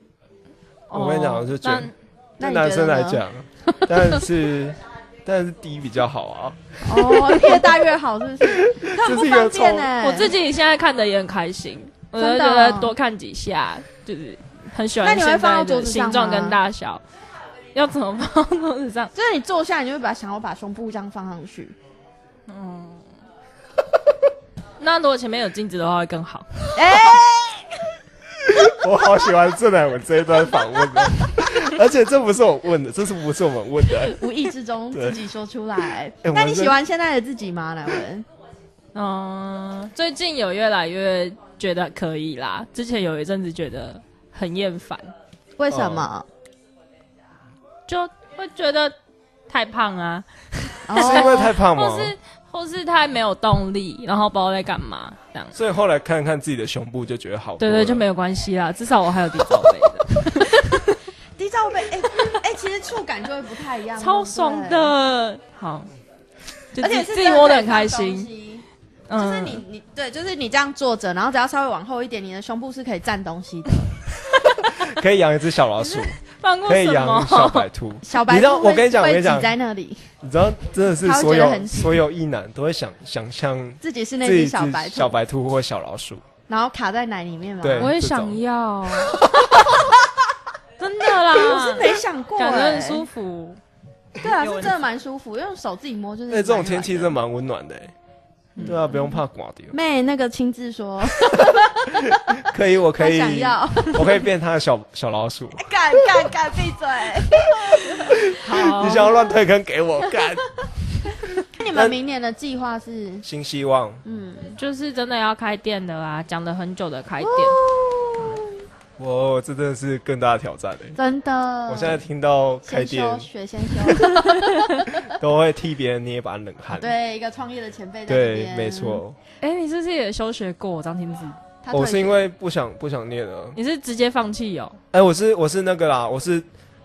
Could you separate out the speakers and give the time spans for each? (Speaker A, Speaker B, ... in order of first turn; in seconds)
Speaker A: 0.9-1.9, 10.0-17.0, 17.7-19.1, 22.5-23.0, 24.8-26.8, 38.9-45.1, 47.9-48.9, 49.5-55.5, 57.6-60.9, 64.0-65.9, 66.7-68.3, 69.1-69.6, 75.8-77.7, 87.8-89.2, 90.8-93.6, 94.4-94.7, 108.4-109.2, 114.6-117.6, 129.4-131.4, 133.6-134.8
Speaker B: 0.9-7.6, 8.4-9.9, 28.4-34.2, 34.9-35.2, 36.2-36.8, 45.7-46.1, 51.0-52.1, 55.5-58.0, 74.8-79.5, 80.2-86.2, 87.6-88.4, 96.3-97.9, 98.6-99.7, 101.2-105.6, 108.3-112.0, 113.2-114.0, 119.0-121.0, 121.7-123.3, 125.0-126.9, 128.1-129.2, 131.7-133.6, 134.9-136.4
Speaker C: 2.4-3.2, 3.7-4.2, 6.8-10.3, 12.2-12.9, 15.0-16.6, 19.1-21.7, 26.7-27.6, 34.0-38.2, 45.6-46.2, 50.9-51.5, 61.4-64.9, 66.8-68.6, 69.2-73.9, 78.0-80.0, 81.0-82.0, 83.8-85.2, 86.5-87.9, 91.3-93.0, 94.2-97.1, 99.7-102.4, 103.0-104.2, 105.6-108.2, 111.6-113.2, 114.0-114.5, 117.2-118.4, 121.0-122.0, 122.7-125.0, 126.7-129.0, 131.6-132.2